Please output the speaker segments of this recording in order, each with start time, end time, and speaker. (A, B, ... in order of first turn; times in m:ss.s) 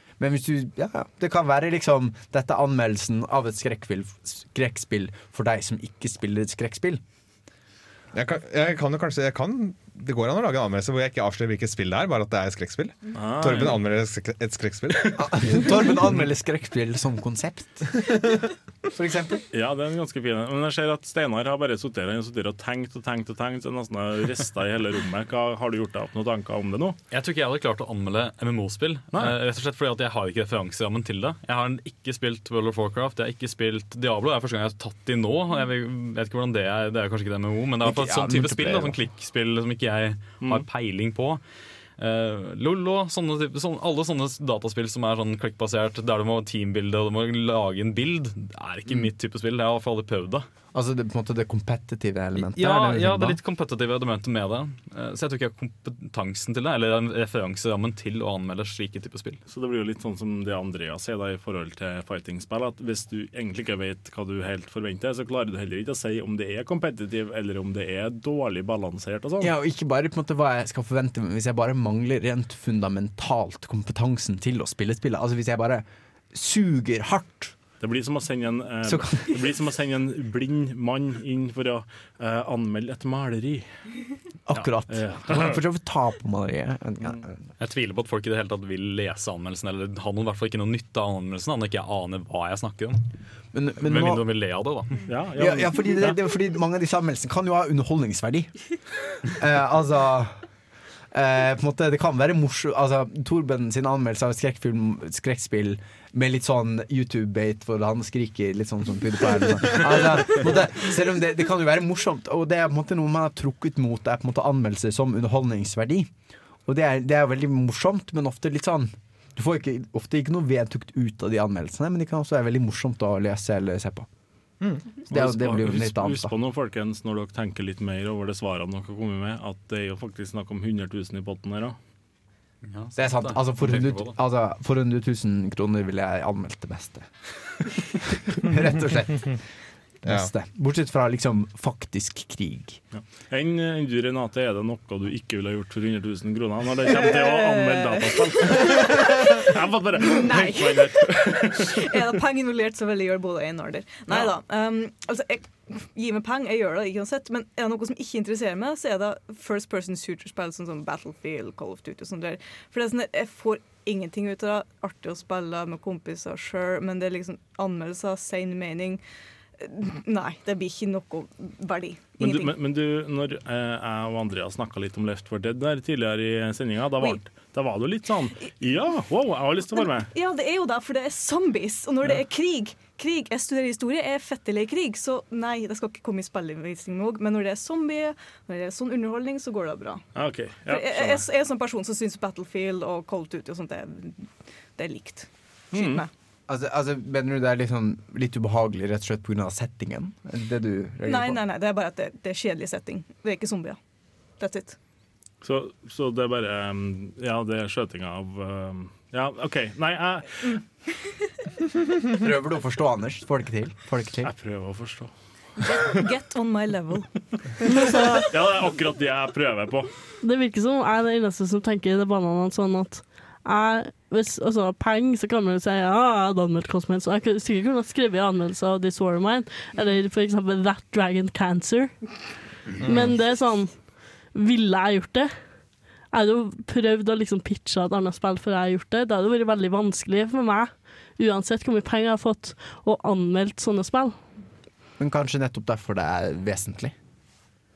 0:00.2-0:07.0 A
0:08.1-0:15.7 B
0:13.1-0:13.8 C
0:15.2-0:18.0 A
0:18.9-0:19.4 A
0:19.5-0:27.0 C
0:27.1-0:41.4 D
0:37.8-0:39.0 A
0:40.4-0:40.7 C
0:42.0-0:50.5 D
0:50.7-0:53.4 A
0:52.3-0:59.4 D
0:59.5-1:09.5 C
1:09.4-1:17.5 A
1:17.8-1:23.7 C
1:18.8-1:19.4 A
1:24.5-1:27.3 A
1:24.9-1:25.6 C
1:27.6-1:33.0 D
1:33.5-1:34.2 A
1:33.8-1:35.0 D
1:35.1-1:36.2 C
1:35.4-1:38.6 A
1:39.2-1:40.4 A
1:41.1-1:56.1 A
1:56.6-2:04.1 A
2:05.1-2:06.3 A
2:05.1-2:11.8 C
2:12.7-2:14.1 D
2:13.0-2:17.5 A
2:18.3-2:19.4 A
2:20.0-2:22.8 A
2:20.0-2:20.3 B
2:22.9-2:31.8 C
2:27.0-2:29.5 E
2:30.1-2:49.0 E
2:34.1-2:34.3 C
2:49.6-2:52.5 E
2:52.2-3:00.1 C
3:00.1-3:10.1 E
3:10.1-3:11.2 C
3:10.7-3:16.1 E
3:15.7-3:16.0 C
3:16.5-3:21.4 A
3:21.0-3:23.8 E
3:24.4-3:24.8 E
3:25.4-3:30.6 C
3:32.2-3:34.3 A
3:34.2-3:35.1 C
3:35.7-3:37.9 E
3:38.3-3:39.9 C
3:40.2-3:52.2 F
3:52.8-3:55.3 F
3:52.8-3:53.1 A
3:56.1-4:04.2 F
4:05.0-4:06.9 A